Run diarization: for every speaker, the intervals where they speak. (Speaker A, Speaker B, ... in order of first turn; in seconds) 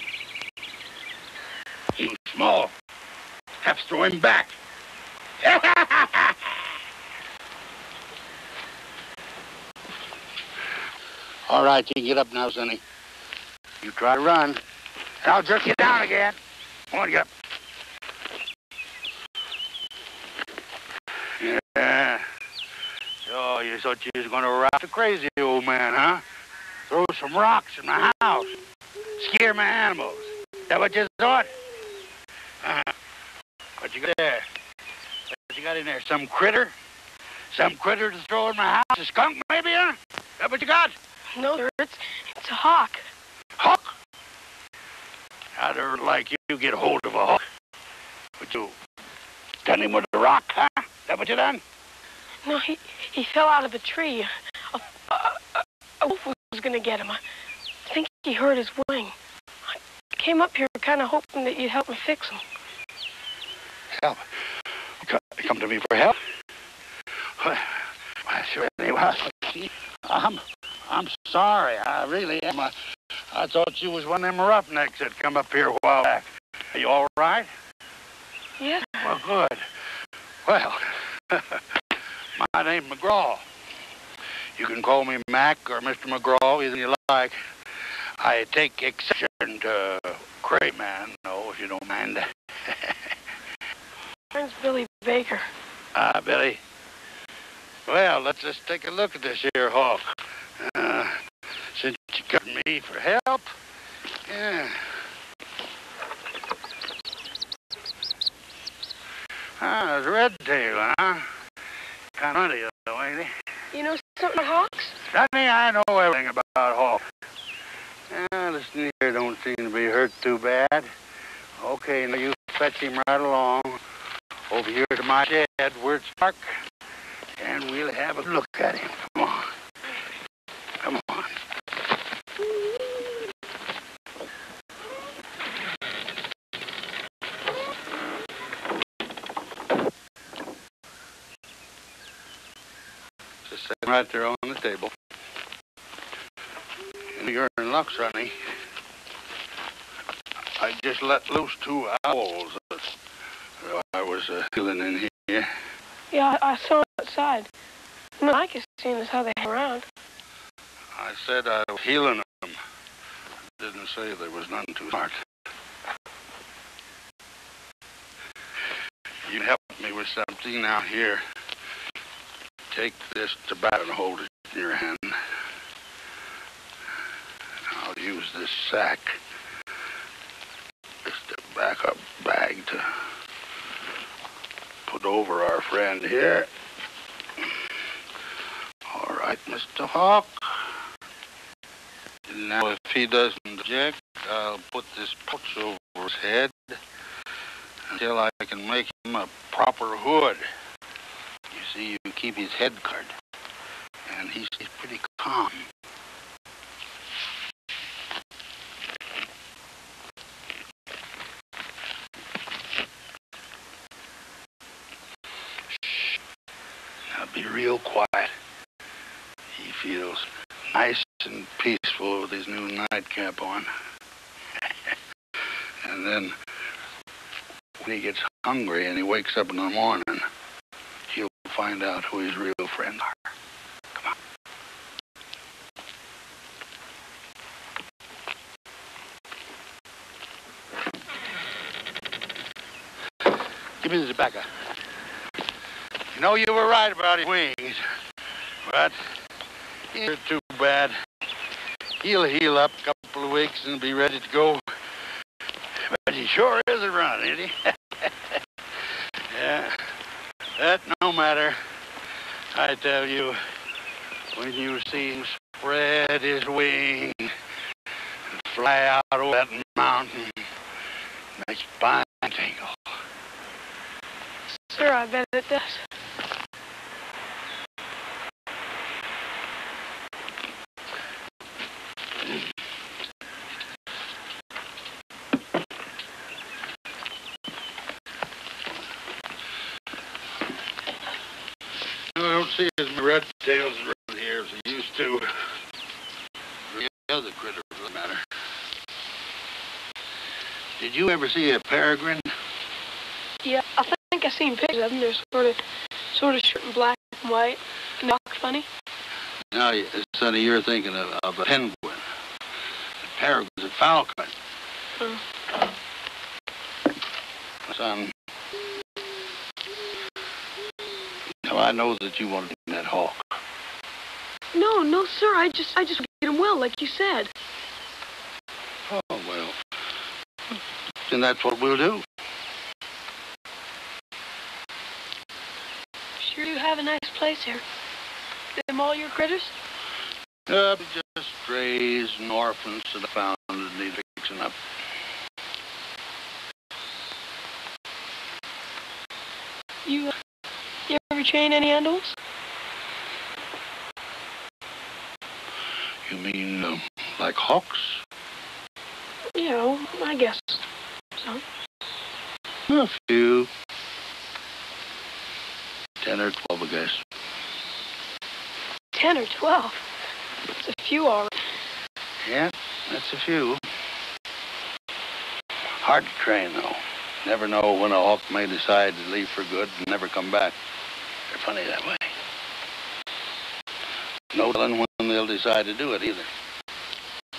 Speaker A: 1.9-2.7, 3.6-4.6, 5.4-6.5, 11.5-12.8, 13.8-14.6, 15.2-16.4, 16.9-17.3, 21.4-22.2, 23.3-26.2, 26.9-28.5, 29.2-31.5, 32.6-33.0, 33.8-34.5, 35.4-36.8, 37.5-41.0, 43.6-43.9, 45.6-47.4, 48.4-48.8, 49.6-51.6, 65.0-66.2, 67.4-72.7, 73.3-77.5, 79.0-79.7, 80.5-81.6, 82.4-83.5, 84.6-87.4, 88.2-93.1, 96.0-96.6, 97.9-101.2, 101.7-103.5, 104.3-104.9, 109.6-111.3, 112.2-113.3, 115.1-117.0, 118.1-120.9, 121.6-123.8, 124.5-126.6, 127.4-129.5, 130.8-131.4, 143.5-144.9, 147.2-148.4, 150.6-153.0, 153.6-155.5, 160.9-162.6, 163.6-165.2, 169.3-171.2, 172.7-175.2, 177.7-179.2, 181.1-182.9, 184.9-186.5, 188.9-190.7, 192.3-196.8, 197.9-200.5, 201.5-203.1, 204.1-205.7, 215.9-216.2, 217.1-218.3, 219.5-223.7, 225.8-226.4, 227.8-230.3, 231.1-233.2, 243.8-244.5, 246.1-247.8, 248.6-249.0, 249.9-251.0, 252.0-254.7, 255.8-258.4, 259.3-259.9, 260.6-261.6, 262.5-263.4, 264.3-267.3, 268.3-270.5, 271.4-272.9, 292.1-295.4, 296.7-298.2, 300.8-302.3, 309.5-312.1, 313.0-314.3, 317.7-318.1, 321.4-323.4, 328.9-329.6, 331.1-332.1, 340.5-344.6, 356.1-358.0, 362.7-363.5, 366.0-367.0, 372.2-373.6, 375.8-380.6, 381.3-382.1, 384.3-386.3
Speaker B: 41.4-43.1, 52.5-57.2, 57.9-59.2, 59.7-62.4, 78.6-79.1, 94.3-95.5, 113.7-115.0, 156.1-157.5, 158.2-159.9, 274.6-275.8, 303.4-305.6, 306.1-308.7, 324.5-327.3, 336.2-337.6, 338.6-339.5, 349.9-350.1, 350.9-352.2, 359.3-360.6, 361.2-361.4, 368.9-369.8, 370.6-371.4